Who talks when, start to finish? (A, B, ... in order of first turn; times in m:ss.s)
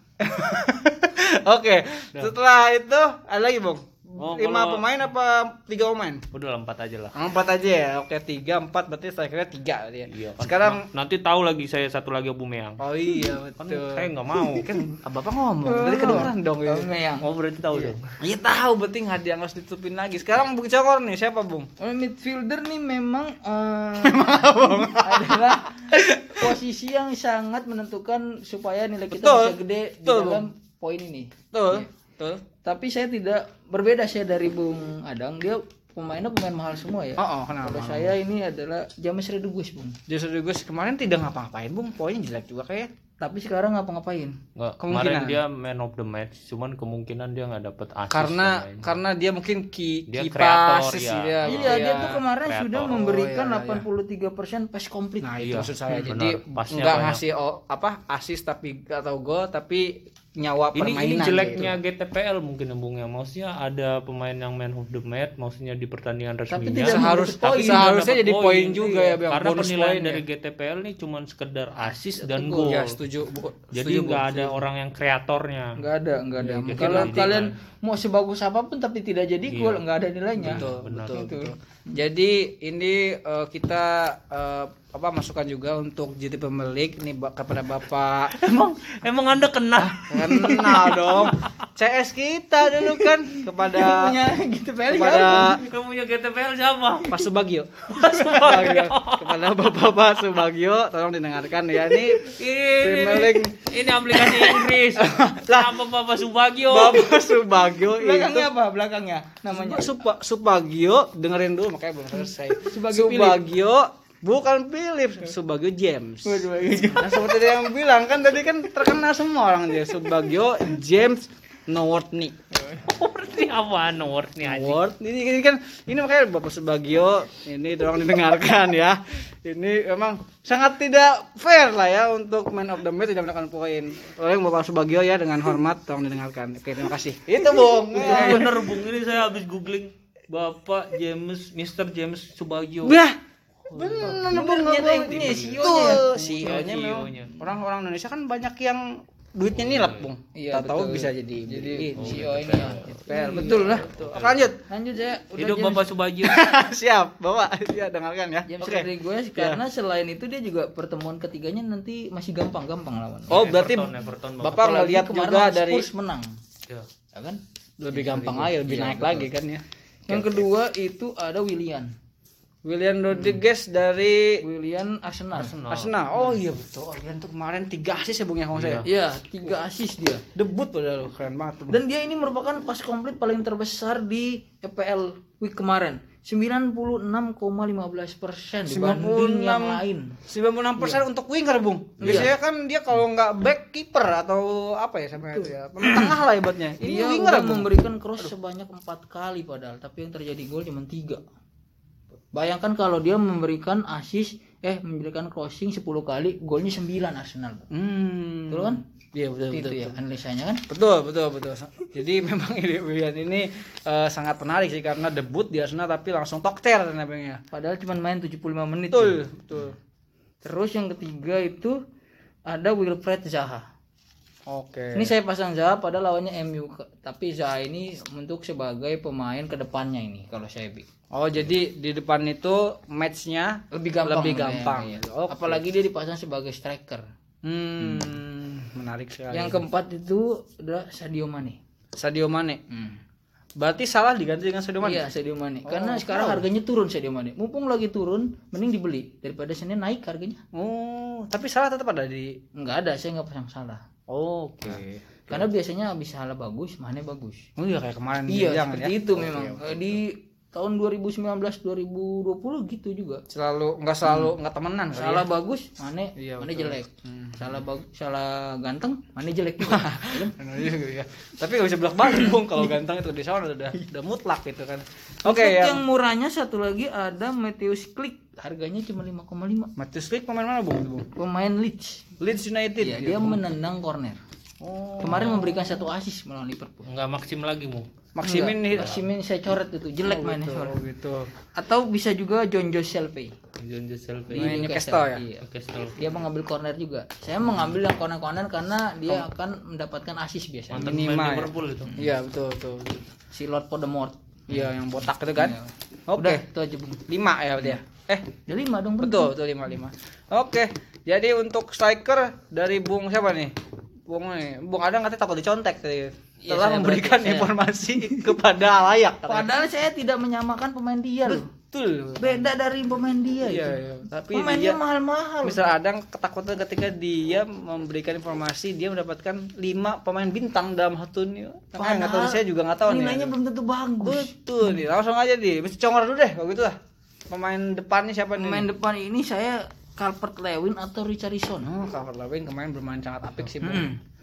0:00.2-0:06.2 A
0:04.2-0:04.9 B
0:06.3-0:07.1 B
0:07.1-0:10.8 A
0:10.1-0:12.8 B
0:12.8-0:16.9 A
0:13.6-0:14.7 B
0:15.6-0:17.2 C
0:17.2-0:18.1 B
0:18.2-0:21.7 A
0:21.8-0:31.8 C
0:24.0-0:26.6 A
0:29.1-0:30.4 A
0:31.5-0:32.4 A
0:32.6-0:40.0 C
0:37.2-0:38.2 A
0:40.1-0:42.9 A
0:43.2-0:44.4 C
0:44.6-0:48.9 B
0:44.8-0:45.4 A
0:48.1-0:52.2 A
0:50.1-0:53.2 B
0:51.4-0:55.4 C
0:52.9-0:53.9 A
0:55.2-1:01.8 A
0:55.4-0:57.2 B
1:00.7-1:13.0 B
1:06.5-1:07.9 C
1:06.8-1:10.2 A
1:08.8-1:09.1 C
1:12.2-1:12.7 C
1:12.5-1:14.6 A
1:13.7-1:15.8 B
1:15.8-1:21.5 C
1:16.4-1:17.5 B
1:16.7-1:17.4 A
1:19.5-1:19.8 B
1:20.4-1:21.3 B
1:20.4-1:28.5 A
1:28.3-1:31.7 B
1:29.9-1:34.1 A
1:30.2-1:30.9 C
1:33.7-1:35.6 C
1:34.9-1:35.6 A
1:35.4-1:37.1 B
1:37.0-1:45.7 A
1:37.9-1:39.6 B
1:37.9-1:38.5 C
1:42.2-1:47.2 B
1:46.7-1:48.5 A
1:47.9-1:50.0 C
1:49.5-2:02.4 A
1:52.6-1:53.4 C
1:56.2-1:57.3 C
2:02.8-2:04.8 B
2:04.4-2:18.6 A
2:17.4-2:18.5 C
2:17.9-2:23.0 B
2:22.8-2:23.2 A
2:23.6-2:27.3 B
2:23.7-2:34.6 A
2:24.3-2:26.3 C
2:29.5-2:30.1 B
2:30.3-2:33.9 C
2:32.0-2:34.5 B
2:34.7-2:35.9 C
2:35.4-2:36.4 B
2:36.2-2:39.6 A
2:38.4-2:43.4 C
2:43.3-2:45.9 A
2:43.3-2:44.7 B
2:44.5-2:46.3 C
2:47.1-2:47.4 C
2:47.8-2:50.4 A
2:47.9-2:49.3 C
2:48.0-2:48.6 B
2:50.1-2:51.9 C
2:52.6-2:54.4 A
2:54.4-2:55.6 C
2:55.3-2:56.0 B
2:55.7-2:58.8 A
2:58.5-2:58.9 B
2:58.8-3:00.2 C
3:00.3-3:01.8 A
3:01.7-3:10.2 C
3:08.6-3:17.7 A
3:12.0-3:12.3 C
3:15.3-3:16.2 C
3:16.8-3:21.2 C
3:22.3-3:27.7 C
3:27.7-3:30.0 A
3:28.5-3:28.8 C
3:29.5-3:30.6 C
3:30.7-3:37.4 A
3:37.5-3:39.2 C
3:38.9-3:39.8 A
3:40.4-3:41.8 C
3:42.5-3:43.6 C
3:44.5-3:45.1 A
3:44.9-3:50.9 C
3:51.1-3:55.6 A
3:53.7-3:57.0 C
3:57.4-3:59.6 A
3:59.3-4:01.6 C
4:02.0-4:02.6 A
4:02.7-4:03.0 C
4:03.6-4:05.0 A
4:04.8-4:10.4 C
4:05.6-4:06.5 A
4:10.5-4:12.3 A
4:12.6-4:13.8 C
4:14.1-4:15.5 A
4:14.7-4:17.5 C
4:17.6-4:20.0 A
4:18.3-4:23.2 C
4:23.3-4:25.3 A
4:24.9-4:30.3 C
4:26.2-4:27.6 A
4:29.6-4:35.8 A
4:35.2-4:39.7 C
4:39.8-4:41.0 A
4:41.2-4:42.0 C
4:42.2-4:43.4 A
4:42.8-4:44.2 C
4:44.6-4:45.5 A
4:45.0-4:46.9 C
4:45.1-4:45.4 B
4:46.9-4:47.9 B
4:48.1-4:49.0 A
4:48.2-4:50.8 C
4:48.7-4:49.0 B
4:50.0-4:51.3 A
4:51.6-4:53.3 C
4:53.6-4:54.7 B
4:54.3-4:55.2 A
4:54.3-4:55.4 C
4:55.4-4:56.0 B
4:56.0-5:01.0 C
5:00.7-5:01.9 B
5:00.7-5:03.0 A
5:01.8-5:02.1 C
5:03.3-5:04.7 C
5:04.5-5:05.6 A
5:05.3-5:07.0 C
5:06.1-5:06.4 A
5:07.1-5:08.3 A
5:08.5-5:09.3 C
5:09.0-5:13.5 A
5:14.1-5:19.5 A
5:16.4-5:18.3 C
5:19.2-5:21.4 C
5:21.2-5:22.5 A
5:22.2-5:25.6 C
5:23.4-5:24.8 A
5:25.4-5:33.3 A
5:31.7-5:34.8 C
5:34.0-5:36.8 A
5:37.3-5:38.7 A
5:38.4-5:41.7 C
5:41.6-5:43.9 A
5:43.6-5:44.0 C